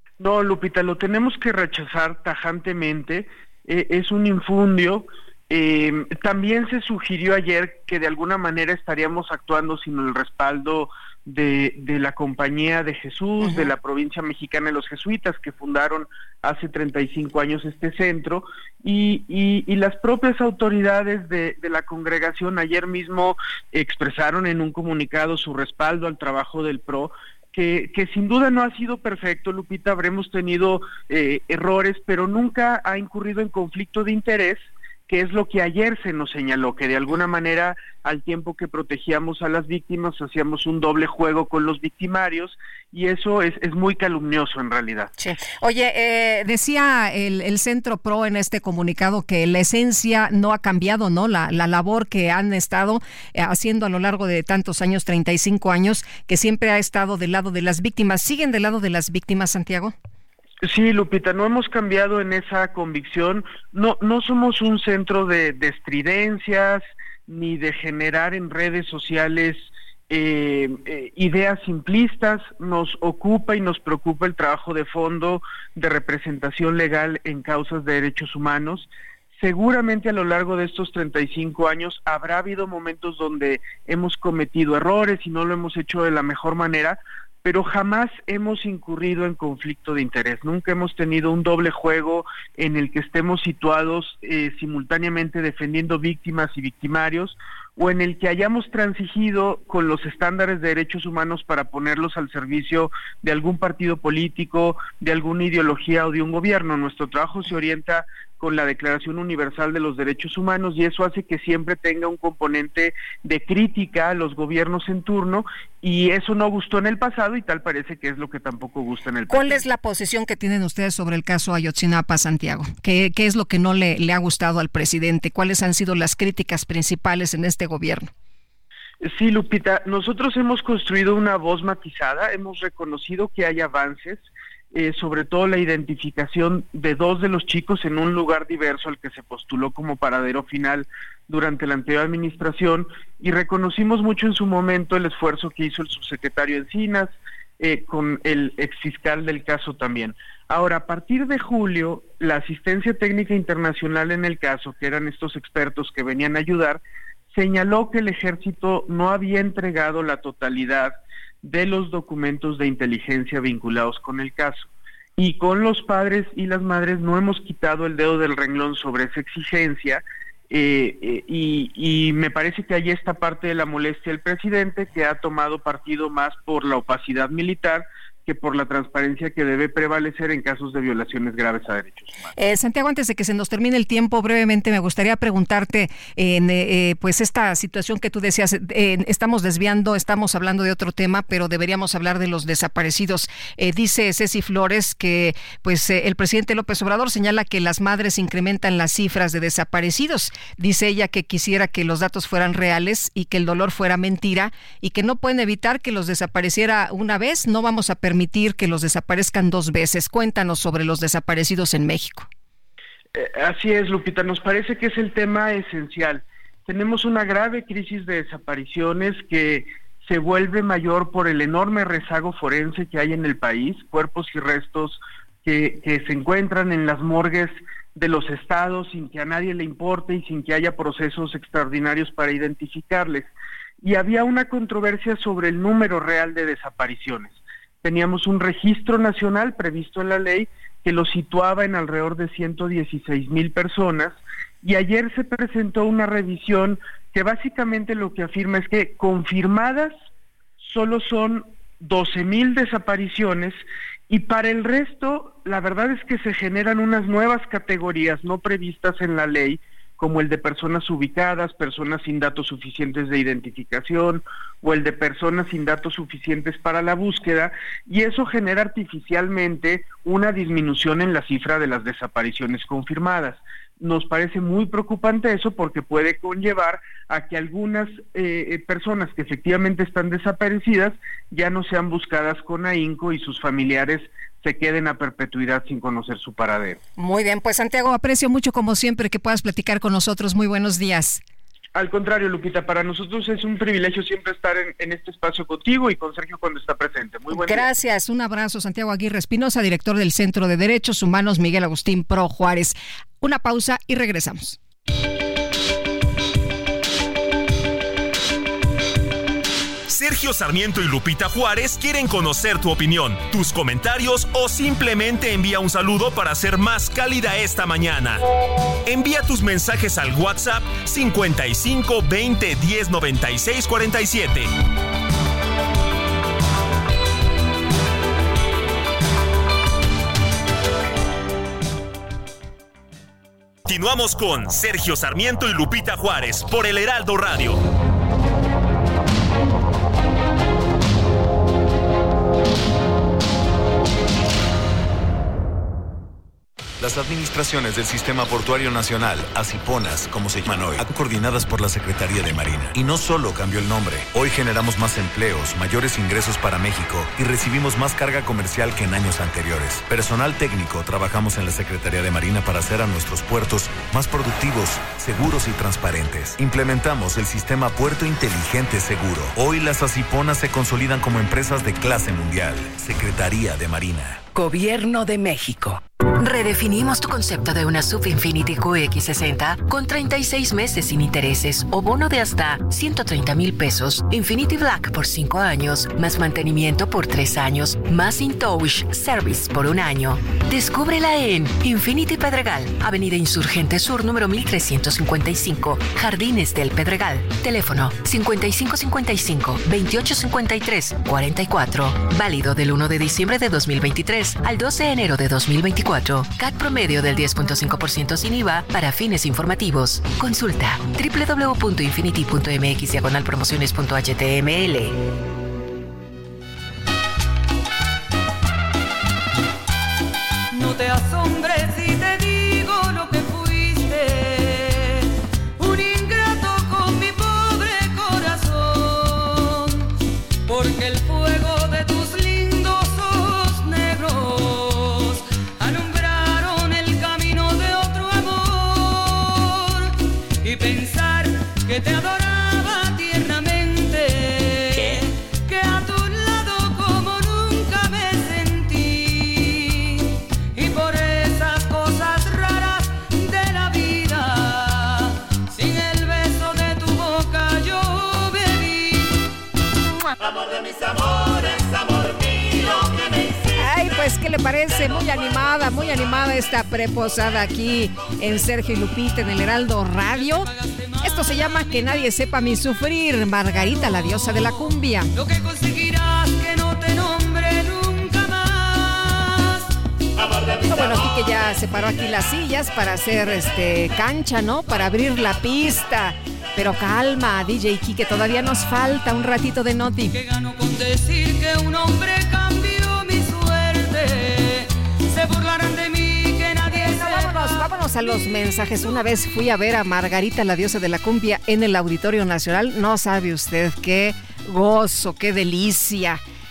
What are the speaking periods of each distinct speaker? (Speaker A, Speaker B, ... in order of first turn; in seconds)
Speaker A: 0.2-45.1, 60.6-119.7, 129.0-156.8, 157.3-182.3, 213.2-249.9, 250.6-286.8, 291.8-297.7
Speaker B: 13.4-13.7, 45.2-59.9, 119.3-128.1, 182.4-212.3, 287.0-291.2, 297.3-304.6, 463.6-470.5, 471.0-475.1, 480.6-490.2, 496.7-506.2
Speaker C: 309.9-318.2, 318.9-324.5, 333.6-337.6
Speaker D: 346.8-374.3
Speaker E: 376.2-415.0
Speaker F: 420.5-429.9, 430.5-459.1, 470.3-471.9, 475.1-479.7, 490.1-497.7